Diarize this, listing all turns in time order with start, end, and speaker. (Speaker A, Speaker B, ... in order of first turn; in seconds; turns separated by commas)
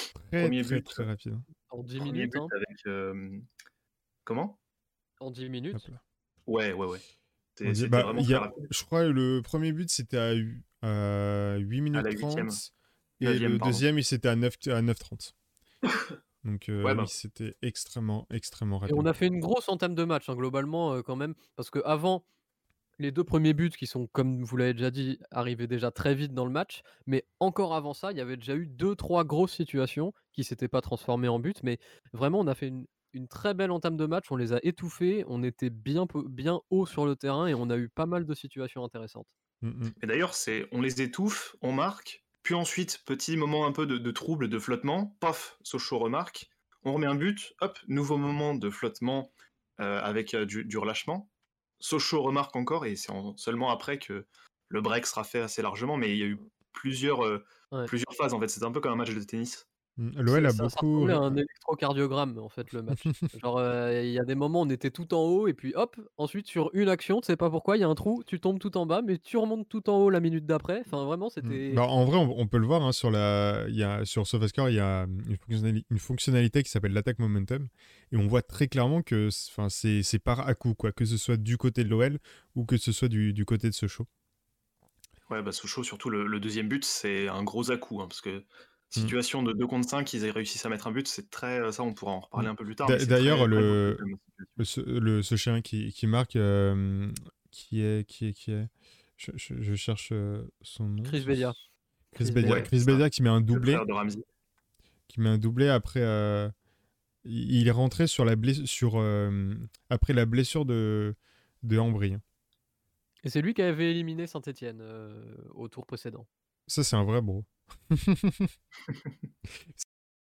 Speaker A: 0.2-1.5, Speaker B: 0.4-1.1, Speaker C: 1.7-2.5, Speaker B: 2.0-3.5, Speaker B: 4.3-4.6, Speaker C: 5.2-5.9, Speaker A: 5.7-6.0, Speaker B: 6.5-7.0, Speaker B: 7.6-8.7, Speaker A: 7.7-15.3, Speaker B: 11.9-12.6, Speaker B: 13.2-13.8, Speaker A: 16.4-19.1, Speaker B: 16.8-17.1, Speaker C: 18.9-22.2, Speaker C: 23.0-39.3, Speaker A: 39.6-40.0, Speaker B: 40.0-51.3, Speaker B: 51.8-59.7, Speaker A: 60.0-61.4, Speaker C: 60.3-71.8, Speaker A: 71.4-84.1, Speaker B: 85.3-94.5, Speaker A: 92.4-94.0, Speaker A: 94.6-101.4, Speaker C: 101.0-101.6, Speaker A: 102.2-103.8, Speaker C: 102.2-102.7, Speaker B: 102.4-104.2, Speaker A: 105.1-106.5, Speaker A: 107.2-112.2, Speaker C: 113.2-116.3, Speaker A: 116.7-118.5